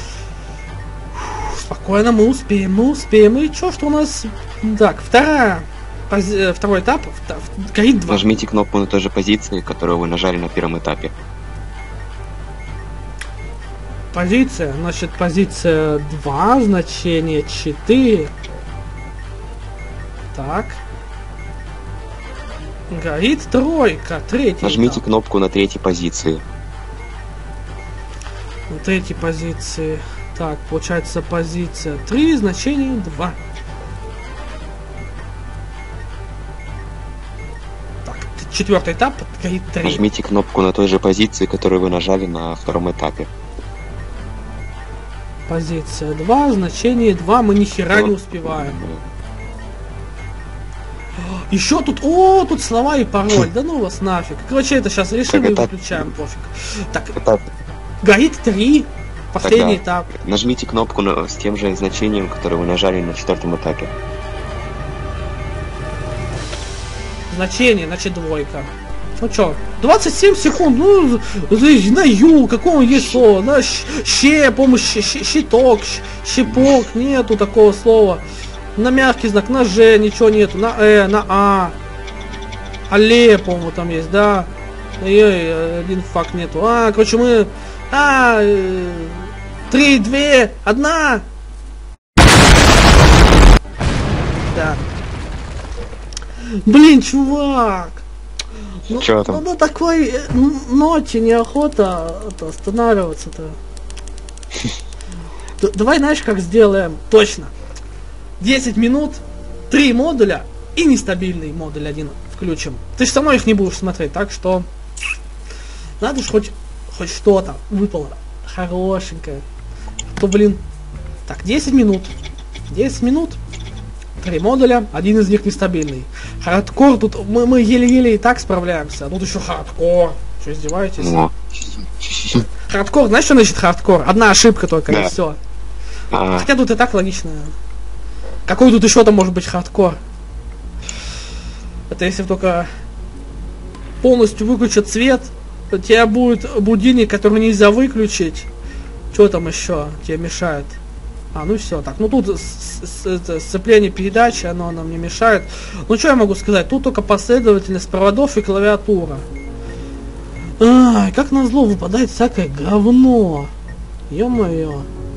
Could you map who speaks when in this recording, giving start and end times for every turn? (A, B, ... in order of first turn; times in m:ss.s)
0:01.2-0:08.3 A
0:08.1-0:11.1 B
0:14.1-0:18.3 A
0:20.3-0:20.8 A
0:22.9-0:25.0 A
0:24.6-0:26.4 B
0:28.7-0:33.4 A
0:38.0-0:40.0 A
0:39.8-0:43.3 B
0:45.5-0:48.8 A
0:47.9-0:49.0 B
0:51.2-0:57.2 A
0:55.3-0:56.1 B
0:57.2-0:57.4 B
0:58.0-1:00.1 A
0:59.4-1:03.9 B
1:07.3-1:18.2 A
1:18.8-1:21.7 A
1:22.9-1:31.2 A
1:34.4-1:34.8 A
1:36.6-1:38.0 A
1:38.9-1:43.6 A
1:38.9-1:39.4 B
1:45.6-1:47.5 A
1:48.4-1:54.6 A
1:56.0-1:59.4 A
2:00.1-2:00.6 A
2:01.3-2:02.1 A
2:02.7-2:03.4 A
2:04.2-2:11.2 A
2:11.0-2:12.5 B
2:12.7-2:15.4 A
2:16.1-2:16.5 B
2:16.3-2:17.5 A
2:18.5-2:20.0 A
2:21.9-2:22.7 A
2:24.0-2:28.5 A
2:29.1-2:30.8 A
2:31.3-2:39.2 A
2:40.6-2:43.5 A
2:44.1-2:44.9 A